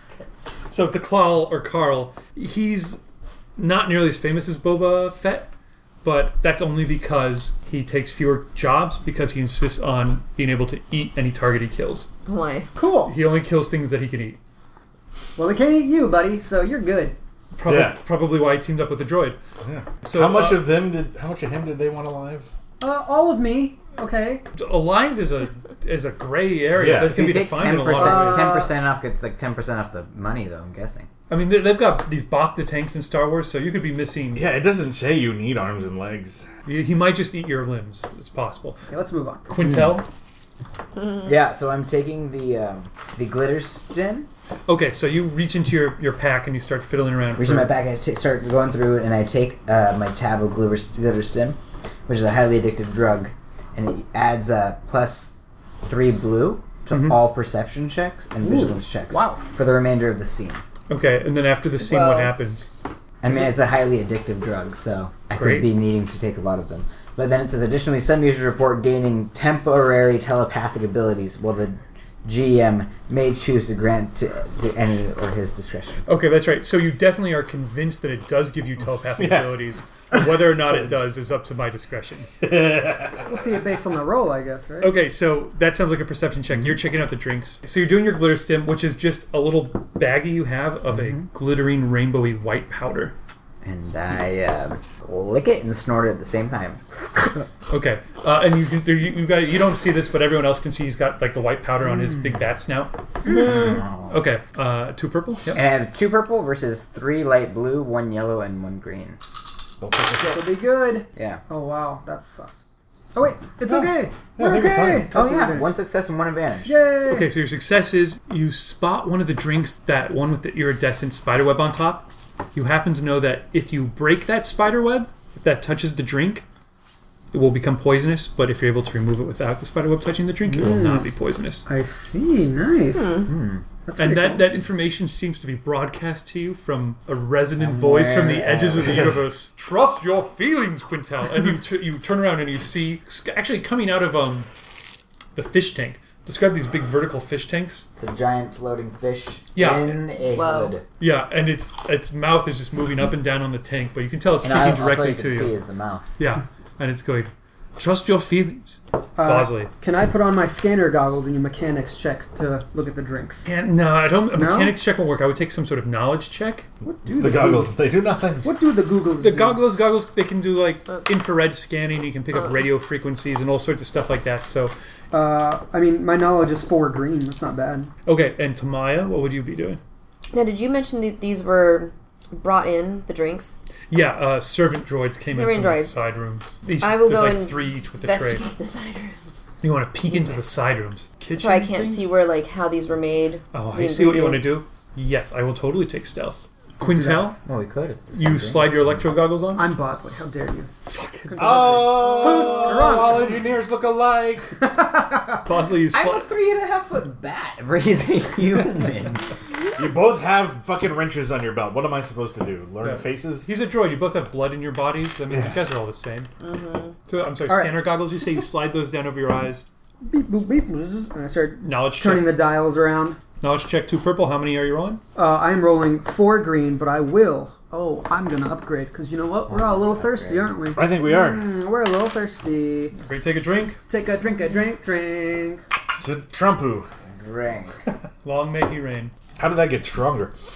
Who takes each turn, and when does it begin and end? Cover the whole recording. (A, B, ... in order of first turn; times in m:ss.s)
0:00.7-0:03.0 A
0:03.6-0:05.5 A
0:06.0-0:12.1 A
0:12.3-0:12.7 B
0:12.8-0:13.2 C
0:13.0-0:14.4 A
0:15.4-0:17.2 C
0:17.6-0:19.4 A
0:17.7-0:18.0 D
0:19.6-0:22.5 D
0:20.0-0:20.7 A
0:22.8-0:24.4 C
0:24.5-0:28.7 A
0:26.7-0:27.2 D
0:26.9-0:31.1 E
0:27.9-0:28.7 C
0:31.3-0:34.4 A
0:34.4-0:36.5 D
0:36.7-0:38.9 A
0:38.9-0:39.5 C
0:39.5-0:40.1 A
0:41.2-0:44.3 E
0:44.7-0:47.8 A
0:47.4-0:55.3 E
0:55.8-1:00.6 E
0:56.9-0:57.3 A
0:58.4-0:59.4 C
1:00.9-1:02.7 A
1:01.8-1:02.3 B
1:03.2-1:16.0 E
1:05.3-1:05.7 A
1:16.1-1:22.3 A
1:19.2-1:20.9 D
1:22.4-1:23.4 D
1:23.2-1:25.0 C
1:24.8-1:33.2 A
1:30.9-1:31.3 E
1:33.6-1:36.8 E
1:37.7-1:43.0 A
1:42.0-1:42.4 E
1:43.2-1:43.8 B
1:43.3-1:44.1 E
1:44.1-1:45.6 A
1:45.5-1:49.2 E
1:49.8-1:50.6 D
1:50.2-1:52.5 C
1:51.2-1:51.4 E
1:53.2-1:55.7 C
1:53.7-1:55.1 D
1:55.1-1:56.7 E
1:56.6-1:57.3 C
1:57.0-2:06.4 A
2:07.3-2:11.7 A
2:10.4-2:11.1 C
2:11.7-2:13.3 C
2:13.0-2:13.3 B
2:13.3-2:13.6 E
2:13.9-2:14.5 C
2:14.0-2:24.5 A
2:17.6-2:19.2 E
2:18.8-2:19.1 D
2:25.4-2:27.9 A
2:28.0-2:30.8 E
2:29.6-2:30.1 A
2:30.3-2:30.7 B
2:31.0-2:35.6 A
2:34.4-2:36.1 E
2:36.2-2:39.7 A
2:39.2-2:43.5 C
2:43.4-2:46.7 A
2:44.3-2:44.8 C
2:46.8-2:47.8 C
2:47.0-2:48.5 D
2:48.4-2:49.6 C
2:49.2-2:54.7 A
2:55.1-2:57.9 C
2:58.1-2:59.8 A
3:00.3-3:03.6 B
3:03.9-3:08.4 A
3:05.3-3:06.0 B
3:06.8-3:09.5 B
3:09.6-3:12.1 A
3:10.2-3:10.6 B
3:11.3-3:14.6 B
3:13.5-3:17.4 A
3:17.4-3:18.7 E
3:18.1-3:19.7 A
3:19.6-3:20.7 C
3:20.9-3:22.0 A
3:21.3-3:23.4 C
3:21.4-3:24.6 D
3:22.2-3:22.5 B
3:24.6-3:25.5 C
3:25.4-3:26.3 A
3:25.9-3:29.3 E
3:29.8-3:33.5 D
3:32.8-3:36.3 A
3:35.3-3:35.6 D
3:36.4-3:37.0 B
3:37.1-3:39.6 A
3:37.5-3:37.9 C
3:40.0-3:43.2 C
3:41.6-3:42.4 A
3:43.4-3:45.0 A
3:45.2-3:53.0 C
3:49.5-3:50.5 E
3:50.7-3:51.5 D
3:53.0-3:53.8 A
3:53.9-3:55.6 C
3:56.0-3:56.9 D
3:57.1-3:57.8 E
3:58.2-3:59.1 A
3:59.4-4:00.3 D